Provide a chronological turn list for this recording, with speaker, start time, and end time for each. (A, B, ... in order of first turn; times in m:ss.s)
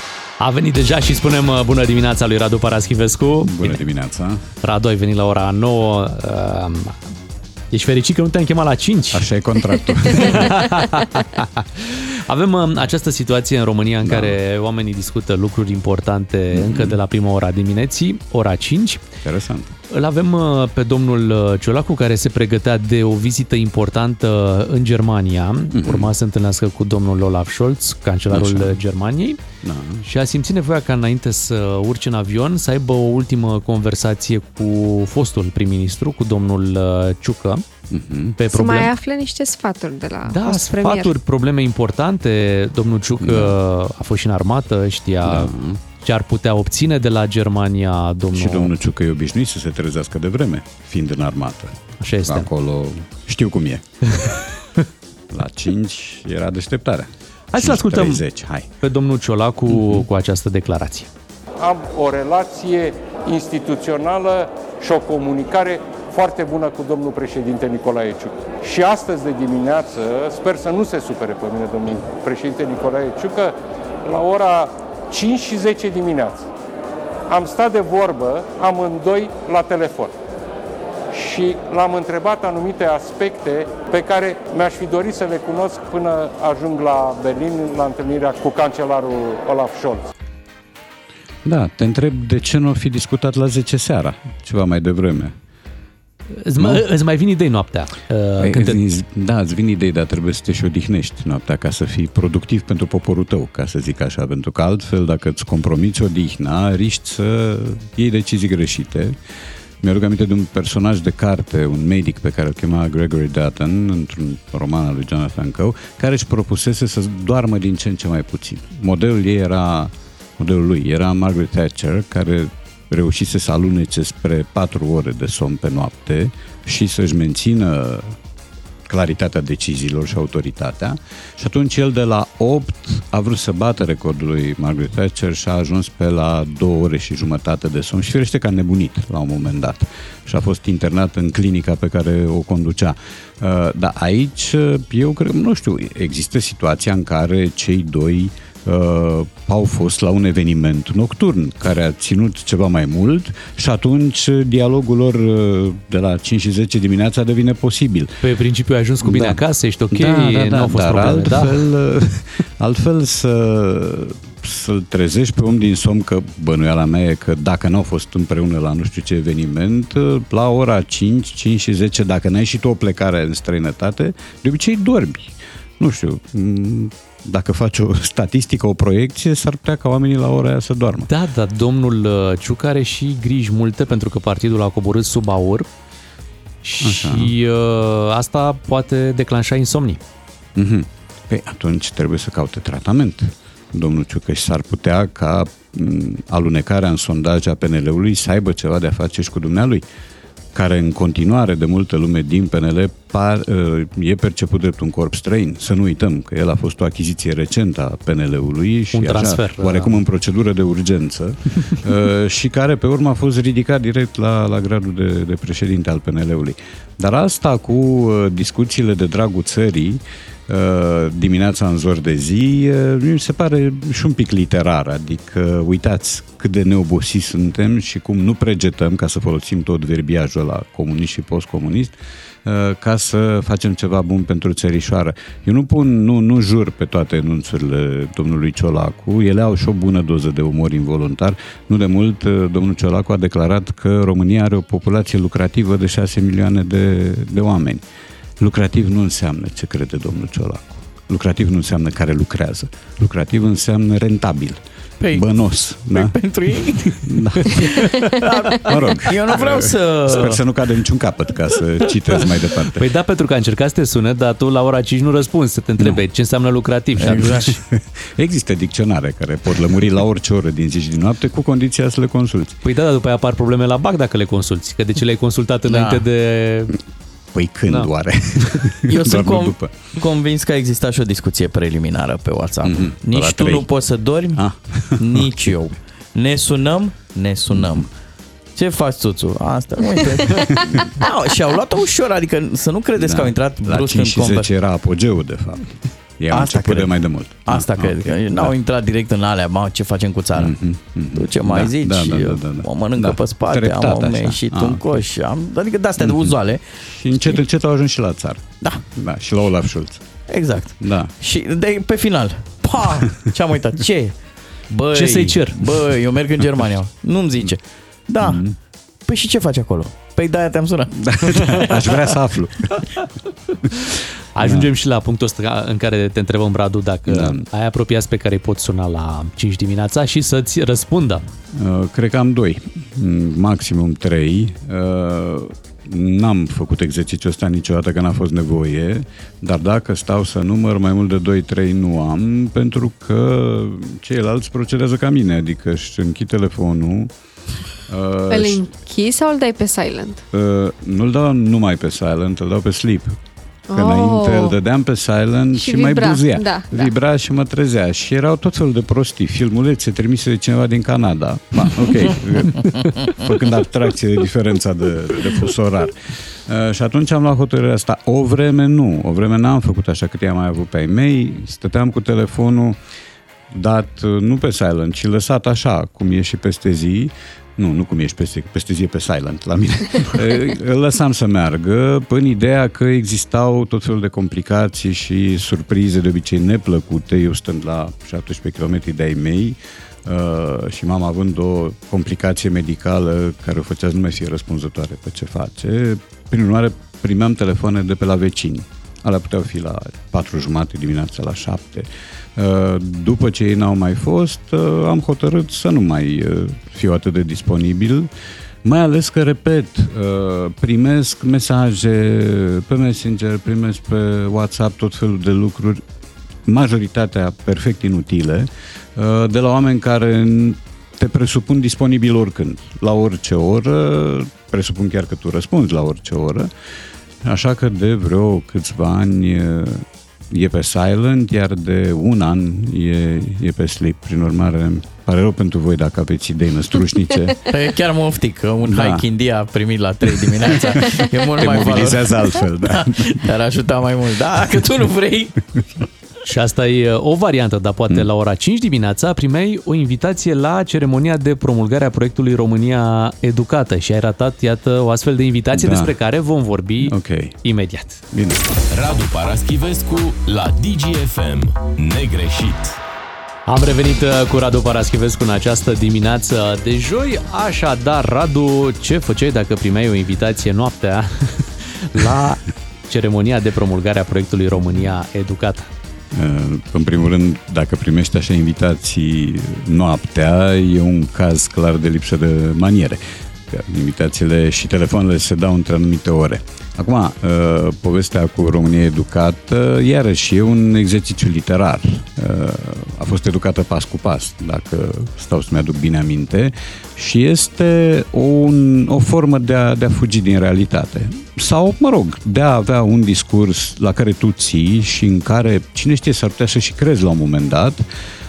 0:00.4-0:03.8 A
0:03.4-0:04.4 B
0:04.6-0:07.0 A
0:07.7-0:09.2 A
0:09.1-0:10.6 B
0:10.0-0:19.0 A
0:14.0-0:14.4 B
0:16.5-0:17.0 B
0:19.2-0:19.7 B
0:19.9-0:29.4 A
0:25.7-0:26.1 B
0:28.3-0:28.8 B
0:29.6-0:30.0 B
0:30.0-0:37.6 A
0:37.9-0:38.4 B
0:38.4-0:38.9 A
0:38.5-0:41.1 C
0:40.2-0:48.7 A
0:43.2-0:43.6 B
0:45.2-0:45.8 B
0:48.3-0:53.8 B
0:52.0-0:52.5 A
0:55.3-0:58.7 B
0:57.5-0:58.2 A
0:58.8-1:01.1 A
0:59.7-1:00.1 B
1:01.6-1:13.5 D
1:14.0-1:16.4 D
1:17.3-1:20.1 D
1:21.1-1:30.0 D
1:31.4-1:35.3 B
1:36.4-1:38.8 A
1:36.6-1:36.8 B
1:38.4-1:49.2 B
1:49.8-2:08.2 B
2:08.9-2:38.1 B
2:38.2-2:41.6 A
2:39.0-2:39.4 B
2:39.9-3:01.1 B
3:01.1-3:05.7 A
3:06.6-3:10.0 A
3:06.8-3:07.3 B
3:10.6-3:19.8 B
3:20.5-4:07.8 B
3:28.9-3:30.0 A
4:08.4-4:14.6 B
4:15.0-4:15.3 E
4:15.1-4:16.2 B
4:15.9-4:20.4 E
4:16.7-4:22.9 B
4:22.8-4:27.5 A
4:27.0-4:32.6 B
4:27.0-4:27.5 E
4:32.6-4:36.8 A
4:35.7-4:36.0 E
4:37.3-4:39.7 B
4:38.9-4:47.9 E
4:42.6-4:43.7 B
4:44.3-4:45.5 B
4:47.5-4:47.9 B
4:48.6-4:54.5 E
4:50.5-4:50.8 B
4:53.0-4:58.5 B
4:56.3-4:56.9 E
4:57.4-5:00.6 E
5:00.4-5:05.0 B
5:01.1-5:06.6 E
5:06.0-5:10.0 B
5:10.3-5:14.1 E
5:10.8-5:11.1 B
5:14.7-5:18.4 E
5:14.9-5:15.7 A
5:18.2-5:18.6 B
5:19.1-5:22.0 E
5:21.0-5:22.8 B
5:24.3-5:31.2 A
5:24.4-5:24.7 B
5:27.1-5:27.4 B
5:31.5-5:47.1 B
5:47.9-5:48.6 B
5:48.3-5:50.2 C
5:50.3-5:53.1 B
5:53.7-5:54.5 C
5:53.7-6:12.8 B
5:55.6-5:56.9 C
6:13.5-6:48.1 B
6:48.6-6:55.8 B
6:56.4-7:06.5 B
7:07.2-7:17.4 B
7:17.5-7:25.4 E
7:18.6-7:19.0 B
7:20.3-7:23.3 B
7:26.2-7:38.0 A
7:35.5-7:35.9 B
7:36.8-7:37.4 B
7:38.1-7:38.5 B
7:38.7-7:42.8 F
7:43.5-7:55.7 A
7:56.1-8:27.8 B